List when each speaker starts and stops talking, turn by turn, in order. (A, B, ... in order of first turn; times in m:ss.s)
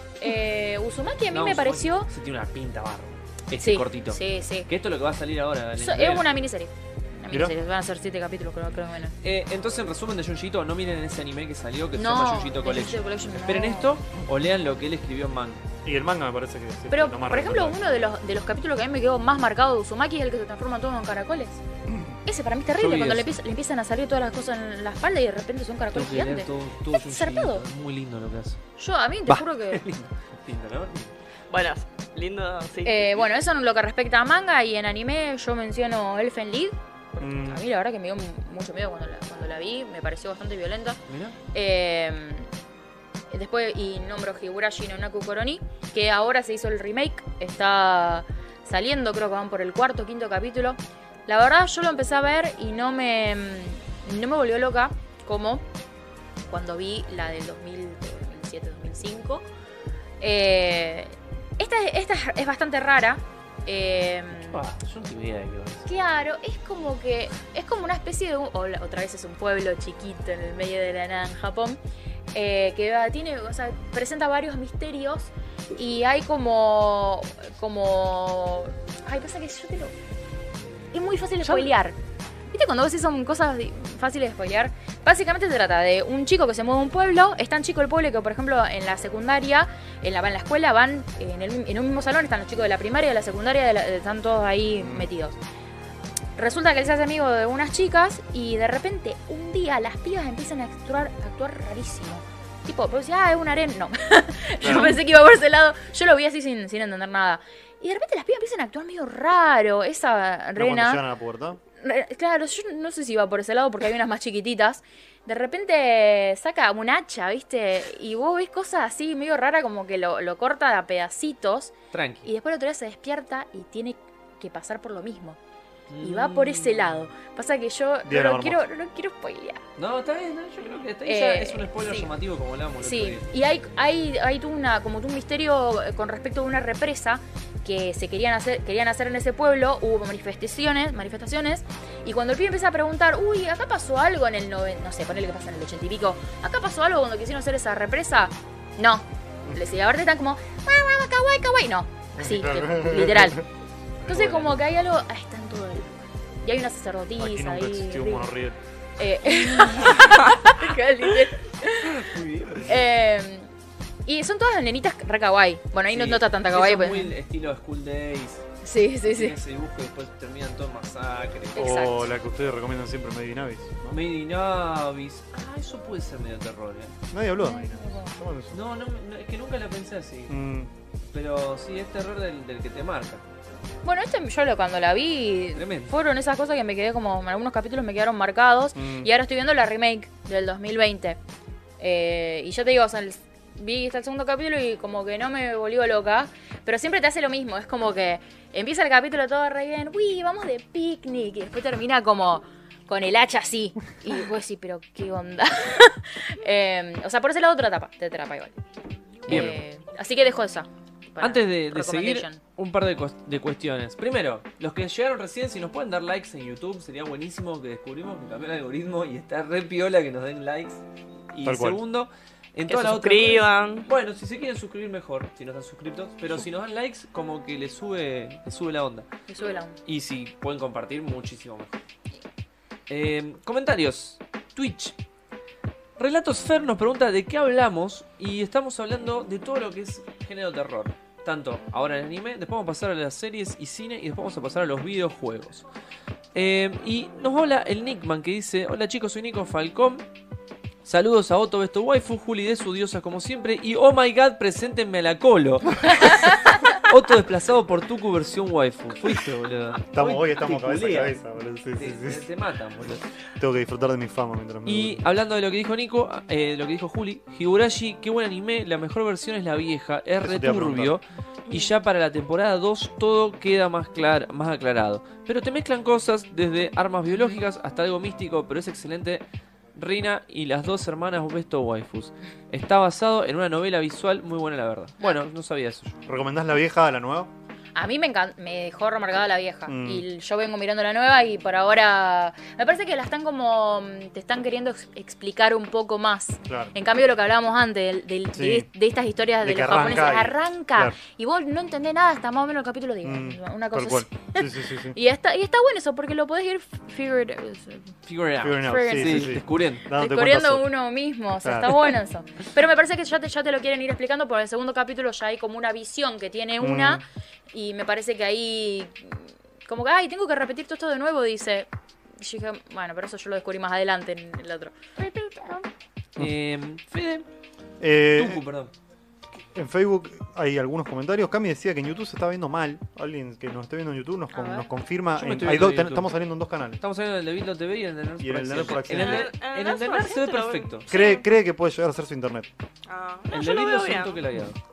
0:00.2-0:02.1 A
0:01.3-0:06.3 B
0:03.6-0:04.7 A
0:05.8-0:09.1 A
0:07.3-0:07.5 C
0:09.2-0:15.6 B
0:11.9-0:14.0 A
0:15.8-0:18.0 C
0:16.9-0:21.6 A
0:22.2-0:27.6 A
0:22.8-0:23.3 B
0:25.9-0:28.6 B
0:28.8-0:29.8 A
0:29.3-0:31.1 B
0:31.5-0:33.2 D
0:32.8-0:41.0 A
0:37.2-0:37.6 C
0:41.1-0:41.4 B
0:41.5-0:42.5 A
0:43.3-0:55.7 A
0:56.5-0:59.4 A
1:00.2-1:04.6 A
1:04.3-1:05.9 B
1:05.8-1:11.8 A
1:12.3-1:19.9 A
1:20.9-1:22.0 A
1:22.5-1:35.4 A
1:34.8-1:35.1 C
1:36.4-1:51.0 A
1:44.6-1:44.9 C
1:50.6-1:51.6 C
1:51.8-2:05.4 A
2:01.9-2:02.3 B
2:05.9-2:07.0 B
2:06.0-2:09.6 A
2:08.0-2:08.6 C
2:09.8-2:13.3 B
2:11.0-2:12.1 A
2:12.8-2:33.4 A
2:32.2-2:33.4 C
2:34.0-2:38.3 A
2:34.1-2:34.6 B
2:37.2-2:38.6 C
2:39.0-2:42.0 A
2:41.7-2:42.8 B
2:42.6-2:43.5 A
2:44.0-2:47.1 A
2:45.9-2:48.4 B
2:48.6-2:49.4 A
2:49.0-2:51.9 B
2:51.5-2:52.1 A
2:51.6-2:54.0 C
2:53.9-2:56.9 B
2:57.1-2:58.6 C
2:57.4-2:58.1 A
2:58.5-3:00.4 B
3:00.3-3:00.7 C
3:01.1-3:03.2 B
3:03.8-3:11.2 A
3:05.6-3:05.9 B
3:08.7-3:09.1 C
3:11.8-3:28.5 A
3:29.2-3:32.4 A
3:29.3-3:29.6 B
3:31.2-3:49.1 B
3:41.4-3:41.8 C
3:42.7-3:43.9 D
3:49.3-3:49.8 A
3:49.8-3:51.8 B
3:52.9-3:55.0 B
3:56.0-4:05.6 B
4:06.3-4:10.0 B
4:10.8-4:21.2 B
4:19.9-4:22.3 C
4:21.8-4:23.0 B
4:23.4-4:25.0 C
4:24.6-4:39.2 B
4:30.2-4:31.0 C
4:39.7-4:46.0 B
4:46.0-4:47.3 C
4:47.8-5:07.9 A
4:49.7-4:50.0 C
4:56.4-4:56.7 C
4:58.3-4:58.7 C
4:59.4-5:01.0 C
5:03.0-5:05.0 C
5:08.0-5:09.9 B
5:08.4-5:10.7 C
5:08.6-5:09.4 A
5:09.9-5:25.4 A
5:11.4-5:11.9 C
5:16.6-5:17.0 C
5:26.2-5:27.2 B
5:27.8-5:28.4 C
5:28.0-5:28.7 B
5:29.5-5:36.8 C
5:34.3-5:34.7 A
5:35.1-5:36.1 B
5:36.8-5:40.9 B
5:38.2-5:39.3 C
5:38.8-5:41.1 D
5:40.9-5:42.5 C
5:42.9-5:44.2 D
5:43.3-5:44.6 B